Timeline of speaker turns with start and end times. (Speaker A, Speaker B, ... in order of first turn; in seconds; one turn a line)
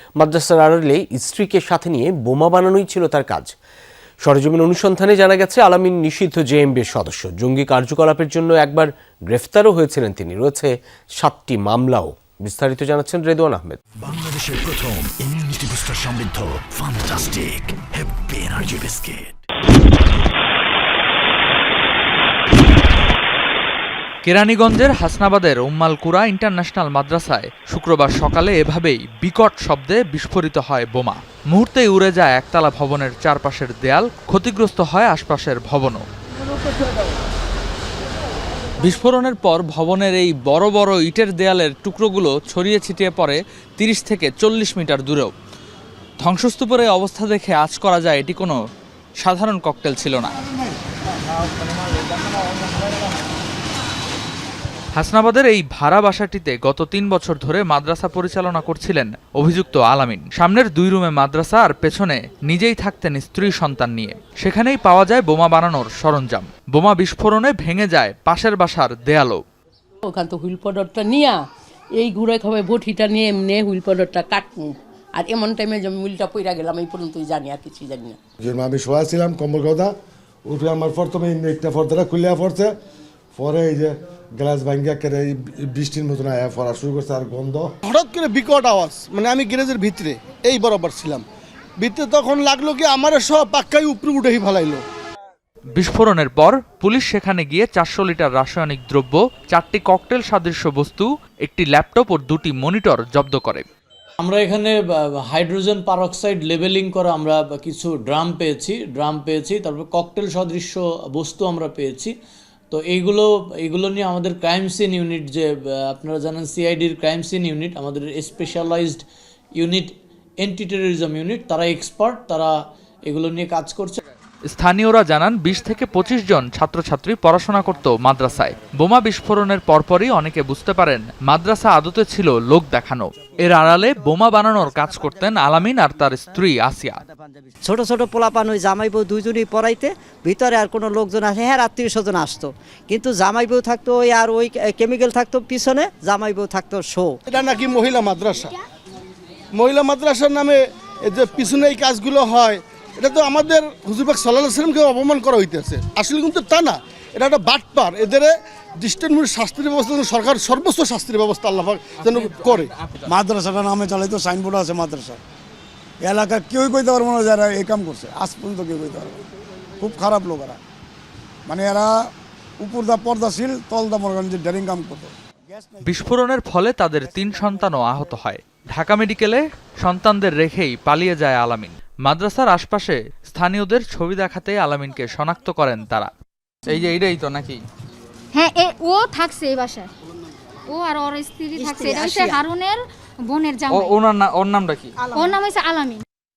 Speaker A: 0.2-3.5
Speaker A: 4.2-13.8
Speaker B: 14.0-19.3
Speaker C: 24.2-36.0
Speaker C: 38.8-45.3
Speaker C: 46.2-48.6
Speaker C: 49.2-50.3
Speaker C: 55.0-69.4
Speaker D: 70.0-71.4
Speaker D: 72.0-78.2
Speaker E: 78.4-79.9
Speaker E: 80.5-82.7
Speaker E: 83.3-87.7
Speaker F: 87.8-91.2
Speaker F: 91.8-94.8
Speaker C: 95.8-103.6
Speaker G: 104.2-112.1
Speaker G: 112.7-119.0
Speaker G: 119.6-122.5
Speaker G: 123.1-124.0
Speaker C: 124.5-137.0
Speaker H: 137.6-147.2
Speaker F: 147.3-148.6
Speaker F: 149.5-162.7
Speaker I: 162.5-165.2
Speaker I: 166.0-169.2
Speaker I: 169.8-170.6
Speaker I: 171.5-171.9
Speaker I: 172.6-175.9
Speaker C: 175.8-186.1
Speaker J: 188.3-189.9
Speaker J: 190.7-194.0
Speaker H: 191.6-192.4
Speaker J: 195.1-196.0